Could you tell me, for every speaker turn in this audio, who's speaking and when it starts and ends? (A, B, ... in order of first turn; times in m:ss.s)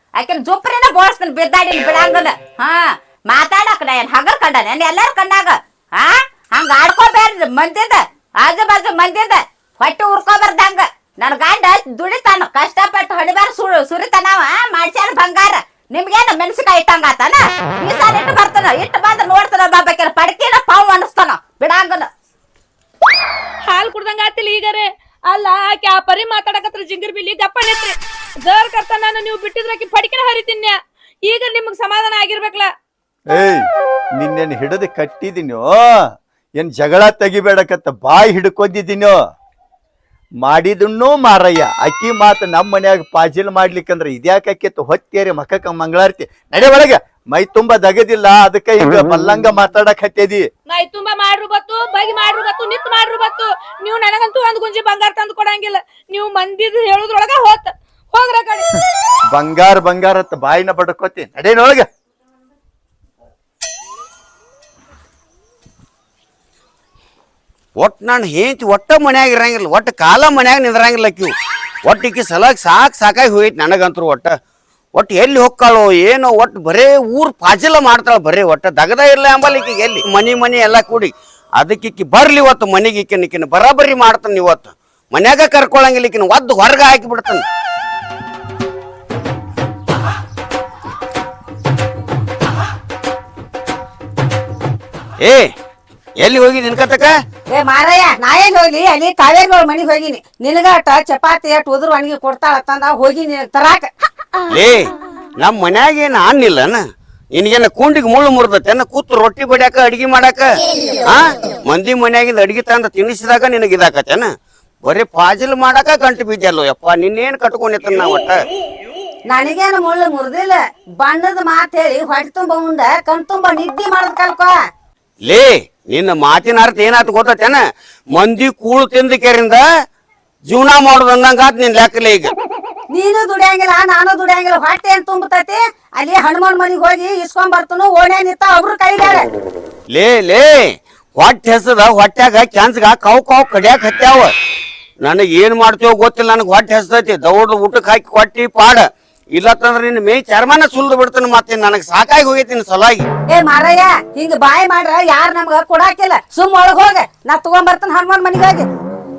0:00.2-0:22.1 A
0:23.6-0:32.7 B
0:33.3-0:39.2 C
0:40.4-0:50.4 C
0:50.7-0:58.7 B
0:59.3-1:01.8 C
1:07.8-1:11.3 D
1:11.8-1:14.3 D
1:14.9-1:27.4 D
1:35.2-1:35.5 D
1:36.2-1:37.1 D
1:37.5-1:43.9 E
1:44.5-1:46.8 D
1:47.3-1:50.5 D
1:51.0-1:54.3 D
1:54.8-1:58.4 D
1:59.3-2:04.5 E
2:05.3-2:07.6 D
2:08.1-2:09.6 D
2:10.5-2:12.3 D
2:12.9-2:19.3 E
2:19.9-2:20.6 D
2:21.1-2:24.3 D
2:25.0-2:33.0 D
2:33.3-2:38.7 E